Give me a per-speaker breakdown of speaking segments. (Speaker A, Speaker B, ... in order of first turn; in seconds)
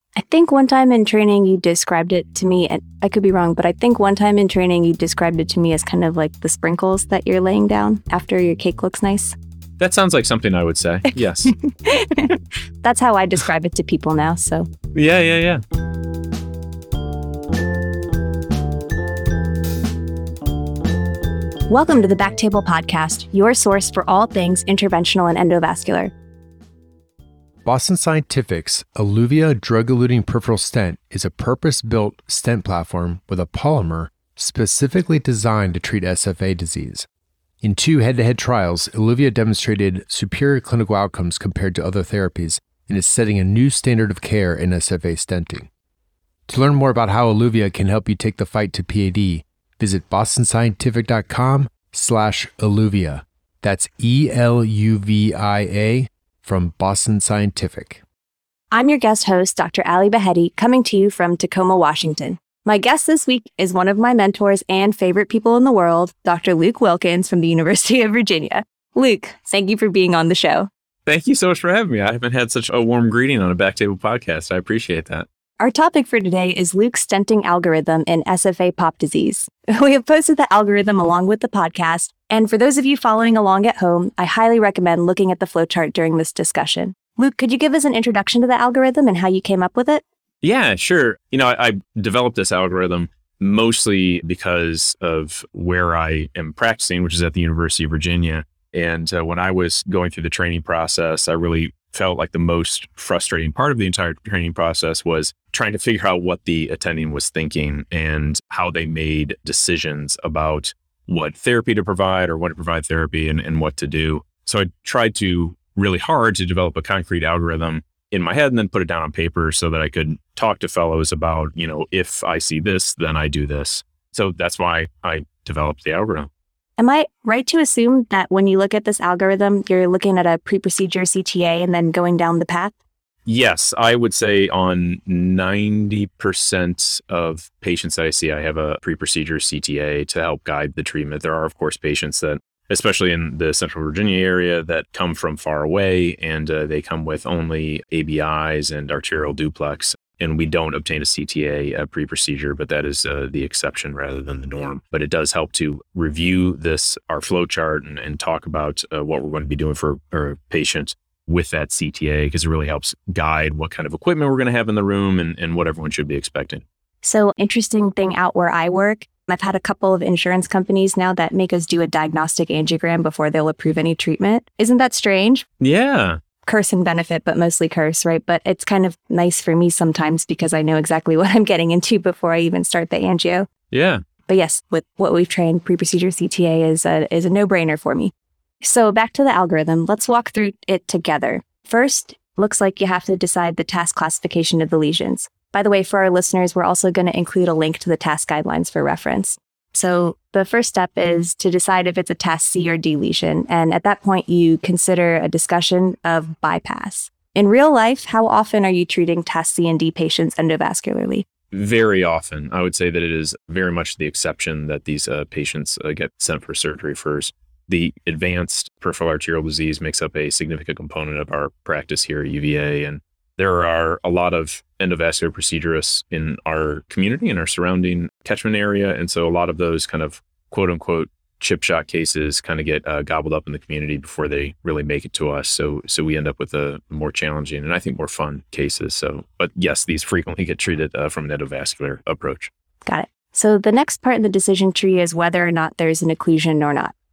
Speaker A: 0.2-9.3, 11.8-14.7, 21.7-26.1, 58.7-70.7, 75.6-90.0, 126.8-132.8, 167.0-175.5, 176.5-183.5, 184.3-188.1, 188.6-211.3, 242.9-246.9
Speaker B: 9.8-11.5, 14.9-15.6, 71.1-75.3, 90.4-126.3, 133.3-166.6, 175.6-176.2, 183.7-184.0, 211.5-242.5
Speaker C: 27.6-37.1, 37.6-45.7, 46.5-58.0